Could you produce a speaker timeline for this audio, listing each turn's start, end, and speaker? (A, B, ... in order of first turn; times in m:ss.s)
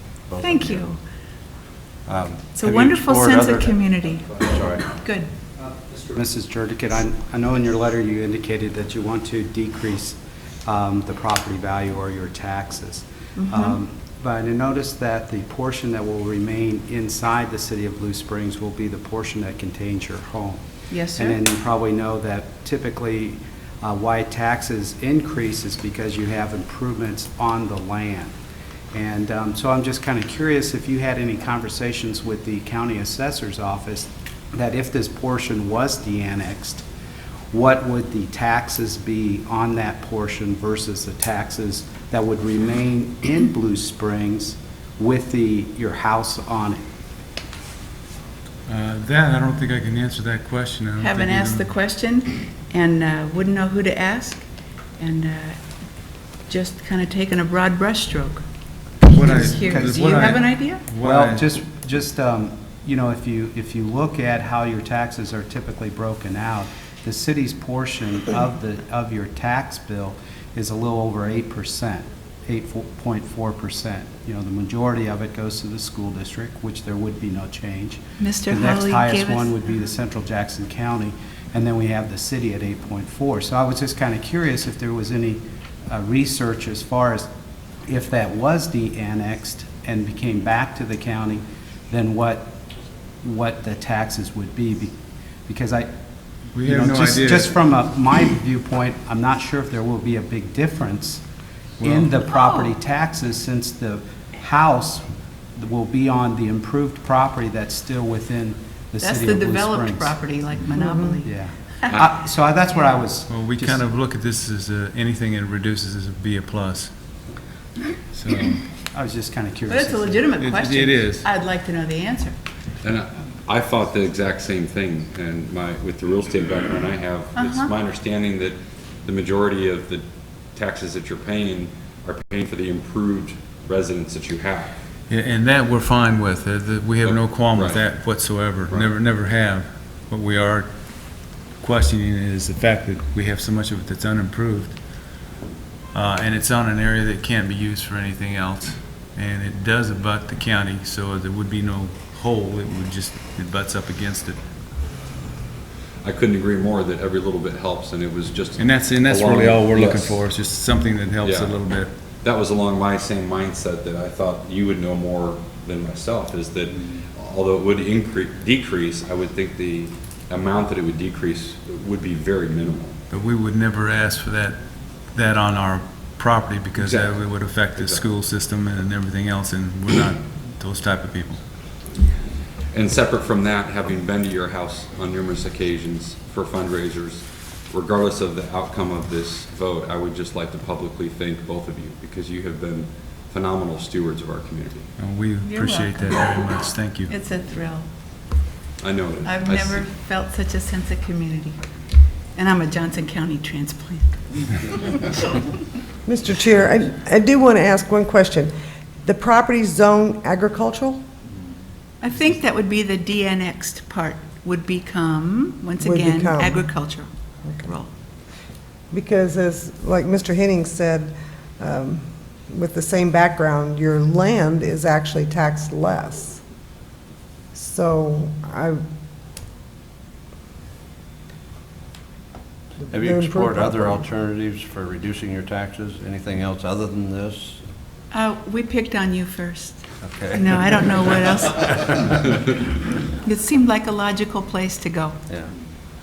0:00.3-0:00.9 A
0:00.4-0:01.0 B
0:02.1-0:04.9 A
0:02.6-0:05.3 B
0:05.9-0:20.6 C
0:13.4-0:13.8 B
0:20.9-0:21.4 B
0:21.1-0:28.3 C
0:28.9-0:36.8 C
0:37.5-0:46.8 C
0:48.7-0:51.7 D
0:51.0-0:55.6 B
0:56.4-0:58.4 B
0:59.0-1:01.5 D
0:59.2-1:00.9 B
0:59.5-1:00.2 C
1:01.0-1:27.3 C
1:18.2-1:19.6 B
1:27.8-1:32.6 C
1:33.2-1:35.0 C
1:35.5-1:35.9 C
1:36.6-1:37.6 D
1:36.6-1:41.2 C
1:41.8-1:42.1 D
1:41.8-1:50.2 C
1:42.3-1:42.7 B
1:49.0-1:52.0 B
1:50.7-1:51.2 E
1:51.2-1:53.8 C
1:53.3-1:56.9 D
1:58.1-1:58.6 D
1:58.8-2:00.4 C
1:59.7-2:02.4 B
2:00.4-2:01.3 D
2:02.8-2:14.8 F
2:07.4-2:07.7 B
2:15.1-2:25.1 D
2:17.0-2:17.9 F
2:25.9-2:34.4 D
2:36.0-2:40.2 F
2:38.6-2:41.9 D
2:41.2-2:41.6 F
2:42.2-2:52.9 F
2:53.1-3:01.4 D
2:56.8-2:58.1 F
3:02.7-3:14.9 F
3:15.0-3:17.1 D
3:15.4-3:16.6 B
3:17.1-3:17.9 B
3:18.8-3:19.8 F
3:19.2-3:21.6 B
3:22.3-3:25.1 B
3:26.0-3:28.5 E
3:29.0-3:31.0 E
3:32.0-3:37.1 B
3:35.8-3:36.7 E
3:37.4-3:37.8 E
3:38.9-3:46.4 E
3:47.5-3:48.8 E
3:52.8-3:54.0 E
3:52.9-3:57.7 A
3:58.1-4:02.5 B
4:00.0-4:02.0 A
4:03.1-4:05.2 B
4:05.3-4:05.5 A